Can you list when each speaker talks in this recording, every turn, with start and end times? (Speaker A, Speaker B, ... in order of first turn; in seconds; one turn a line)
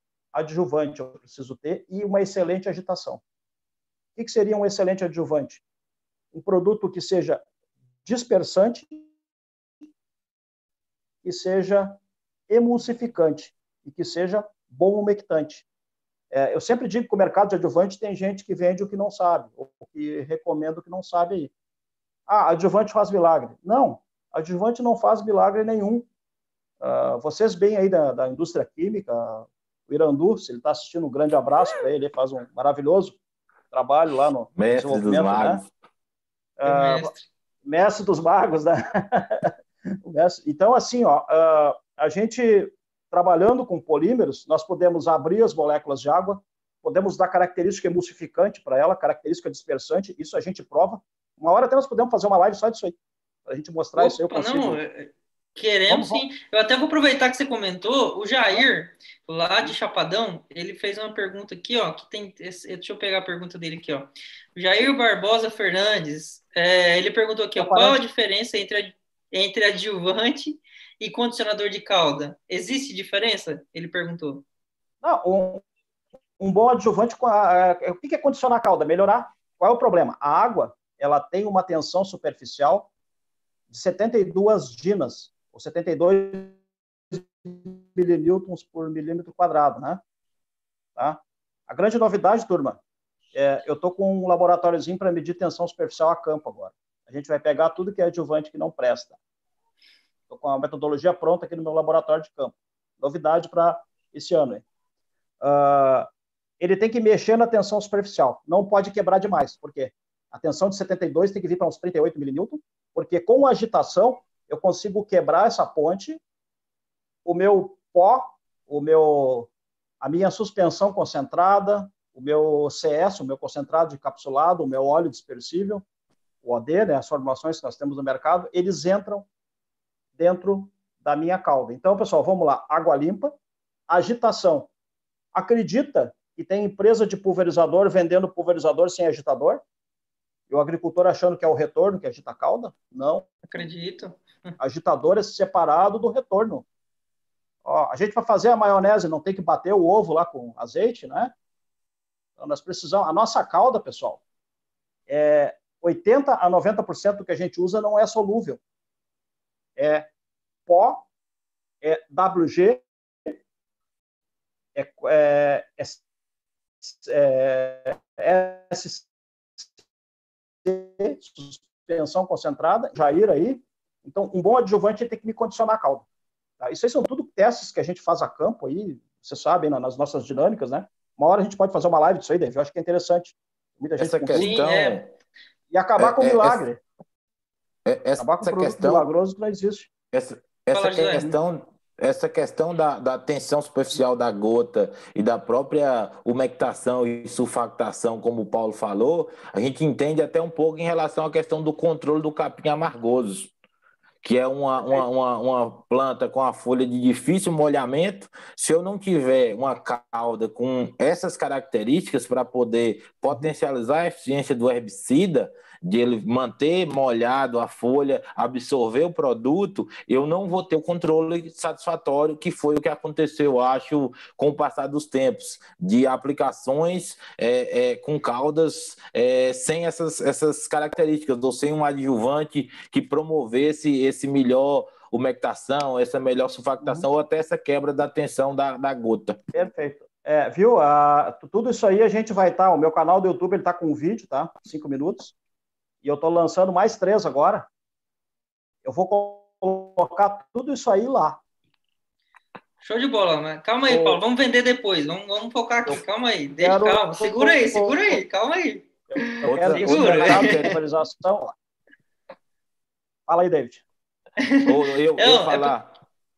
Speaker A: 0.3-3.2
Speaker A: 4.2-5.6
Speaker A: 6.3-7.4
Speaker A: 8.1-9.0
Speaker A: 11.2-15.7
Speaker A: 16.3-21.5
Speaker A: 22.3-26.1
Speaker A: 26.8-33.2
Speaker A: 33.7-35.6
Speaker B: 34.6-35.7
Speaker A: 36.6-37.1
Speaker C: 36.6-37.3
Speaker A: 37.6-53.0
Speaker A: 53.5-54.8
Speaker C: 54.0-74.5
Speaker A: 55.9-56.2
Speaker A: 67.6-68.0
Speaker A: 75.0-75.6
Speaker A: 76.4-82.9
Speaker A: 83.7-86.6
Speaker A: 87.1-90.0
Speaker A: 91.0-92.8
Speaker A: 93.3-99.2
Speaker A: 100.3-104.6
Speaker A: 105.4-106.1
Speaker A: 106.6-116.2
Speaker A: 117.2-119.5
Speaker A: 120.0-125.8
Speaker A: 126.4-129.3
Speaker A: 130.2-133.3
Speaker A: 133.9-134.7
Speaker A: 135.3-139.6
Speaker A: 140.5-143.3
Speaker C: 143.5-144.6
Speaker A: 144.6-146.7
Speaker A: 147.7-151.3
Speaker A: 152.4-154.2
Speaker A: 155.1-158.6
Speaker A: 159.8-160.1
Speaker A: 160.7-161.1
Speaker A: 161.8-163.4
Speaker A: 164.8-166.0
Speaker A: 166.8-169.1
Speaker A: 170.7-176.1
Speaker A: 176.6-184.5
Speaker B: 184.0-185.1
Speaker C: 184.3-185.0
Speaker A: 185.7-186.8
Speaker B: 186.0-186.6
Speaker B: 187.9-189.1
Speaker A: 188.2-189.9
Speaker B: 190.1-203.5
Speaker C: 190.7-191.3
Speaker B: 204.2-239.4
Speaker A: 204.8-205.1
Speaker A: 236.8-237.1
Speaker A: 239.5-245.3
Speaker A: 246.0-247.7
Speaker A: 248.8-251.4
Speaker C: 252.8-260.8
Speaker A: 253.9-254.2
Speaker A: 256.6-258.2
Speaker A: 259.4-261.6
Speaker B: 259.4-260.8
Speaker A: 263.3-263.8
Speaker C: 264.4-265.8
Speaker B: 264.7-265.9